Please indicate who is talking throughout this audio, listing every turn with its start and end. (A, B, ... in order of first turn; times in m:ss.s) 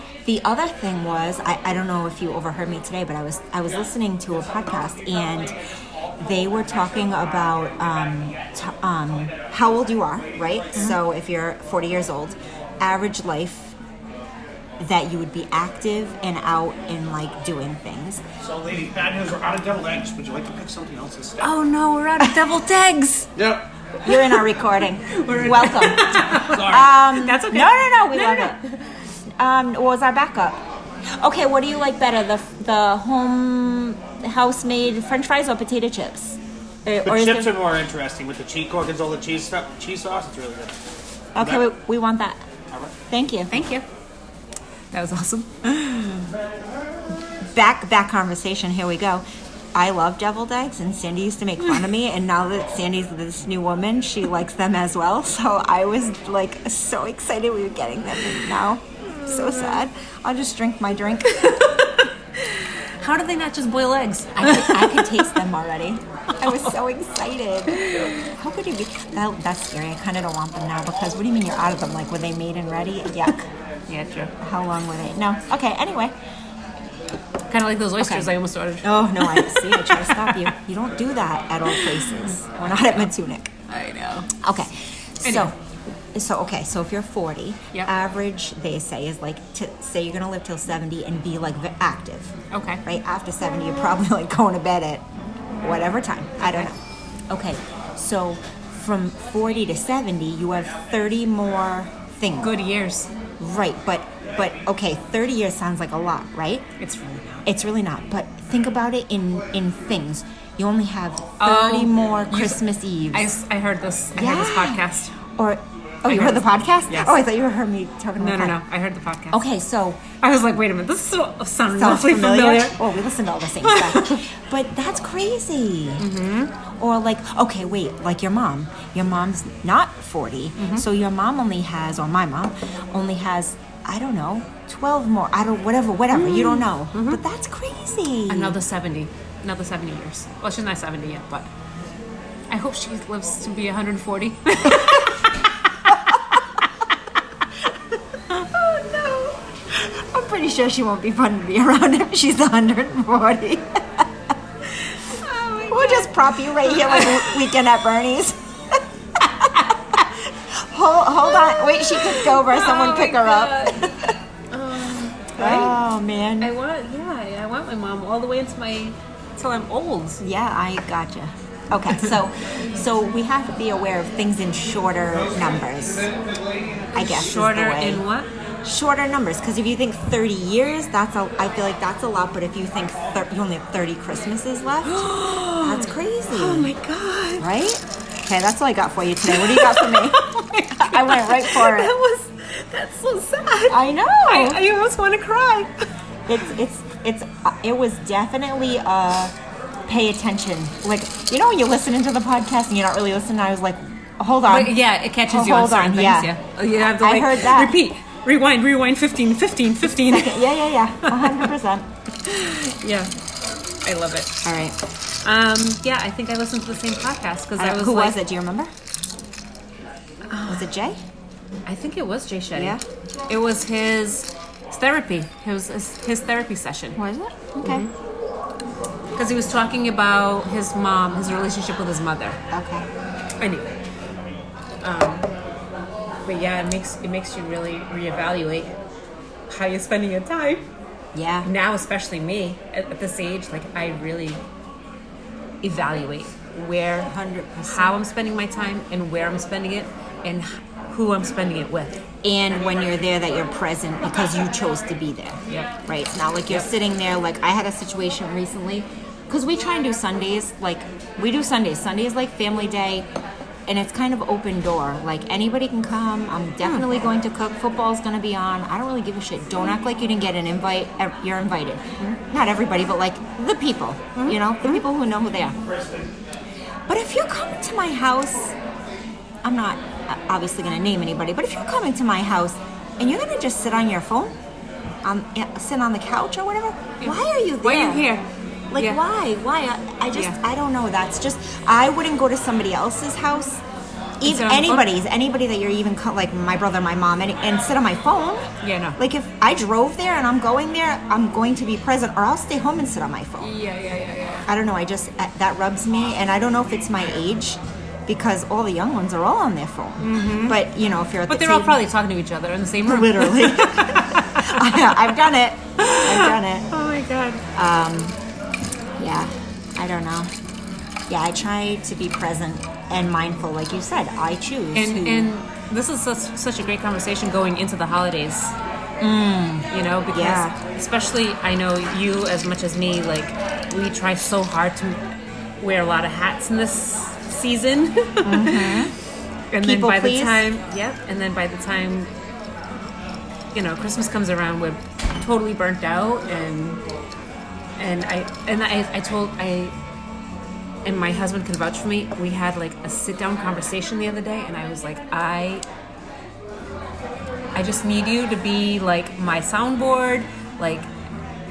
0:00.2-0:05.5 A
0:06.2-0:13.8 A
0:14.8-0:18.2 A
0:18.4-0:21.5 B
0:21.4-0:23.3 C
0:23.4-0:23.6 B
0:24.0-0:28.6 A
0:24.1-0:24.3 C
0:25.1-0:28.8 C
0:25.5-0:27.0 B
0:29.4-0:37.5 A
0:37.0-0:40.8 B
0:41.4-0:42.4 A
0:41.4-0:41.6 B
0:42.7-0:43.0 B
0:43.1-0:43.5 A
0:43.5-0:43.8 C
0:44.9-0:46.2 C
0:47.5-0:49.2 A
0:49.7-1:01.7 A
0:59.1-0:59.8 C
1:01.3-1:05.4 C
1:04.4-1:13.4 A
1:07.7-1:08.2 C
1:13.3-1:14.3 C
1:14.4-1:16.2 A
1:17.5-1:20.5 C
1:18.0-1:23.5 A
1:21.7-1:22.3 C
1:23.7-1:24.3 C
1:24.4-1:25.6 A
1:25.2-1:25.5 C
1:26.1-1:32.3 A
1:32.5-1:32.8 C
1:32.8-1:35.0 A
1:35.6-1:36.8 A
1:36.4-1:36.7 C
1:37.3-1:42.5 A
1:42.4-1:43.1 C
1:43.4-1:46.7 A
1:46.8-1:47.4 C
1:47.4-1:53.3 A
1:51.4-1:55.1 C
1:54.1-1:54.8 A
1:55.4-1:58.6 A
1:56.1-1:57.2 C
1:58.2-1:59.4 C
1:59.3-2:00.0 A
2:00.2-2:02.8 C
2:01.7-2:06.0 A
2:03.6-2:04.2 C
2:06.0-2:06.5 C
2:06.7-2:18.6 A
2:10.6-2:10.8 C
2:16.1-2:17.2 C
2:18.3-2:21.5 C
2:22.5-2:25.3 C
2:25.9-2:26.2 A
2:28.3-2:34.1 A
2:35.0-2:37.4 C
2:35.7-2:44.1 A
2:41.2-2:45.8 C
2:45.4-2:46.5 A
2:46.4-2:50.2 C
2:50.2-2:56.1 A
2:56.2-2:56.5 B
2:56.9-2:58.3 C
2:56.9-2:58.0 A
2:58.6-3:06.7 A
3:04.8-3:07.5 C
3:07.4-3:11.9 A
3:09.2-3:15.8 C
3:13.7-3:14.6 A
3:16.3-3:19.3 A
3:19.9-3:27.8 A
3:24.5-3:30.4 C
3:30.0-3:31.9 A
3:31.0-3:31.5 C
3:32.2-3:33.1 C
3:33.8-3:34.4 C
3:34.4-3:34.8 A
3:35.2-3:38.2 C
3:37.6-3:38.7 A
3:40.3-3:40.6 C
3:40.4-3:41.0 A
3:41.6-3:42.8 C
3:42.5-3:42.8 A
3:43.3-3:47.0 C
3:47.0-3:47.8 A
3:47.6-3:47.9 C
3:49.2-3:52.4 C
3:52.5-3:52.9 A
3:53.4-3:53.8 C
3:54.8-3:55.3 C
3:56.2-3:58.7 C
3:59.5-4:00.6 C
4:01.1-4:01.5 A
4:01.4-4:04.4 C
4:05.6-4:07.1 C
4:07.0-4:07.9 A
4:07.6-4:12.0 C
4:12.2-4:23.1 A
4:23.7-4:35.6 A
4:26.6-4:27.0 C
4:34.1-4:34.8 C
4:36.9-4:38.5 A
4:39.4-4:44.3 A
4:45.0-4:48.0 A
4:47.0-4:48.2 C
4:48.7-4:53.6 A
4:48.8-4:49.0 C
4:54.2-4:58.4 A
4:54.2-4:54.9 C
4:58.6-4:59.0 C
4:59.0-5:03.5 A
5:03.4-5:04.5 C
5:04.5-5:11.8 A
5:10.0-5:10.6 C
5:11.3-5:15.0 C
5:12.8-5:16.7 A
5:15.8-5:17.4 C
5:17.5-5:18.2 A
5:19.0-5:20.3 A
5:21.1-5:25.3 A
5:24.7-5:28.5 C
5:29.0-5:30.5 A
5:29.7-5:35.0 C
5:35.6-5:38.9 C
5:38.2-5:38.9 A
5:39.5-5:42.1 C
5:39.6-5:40.4 A
5:43.5-5:46.8 C
5:47.8-5:49.7 C
5:50.8-5:55.6 C
5:57.5-6:00.9 C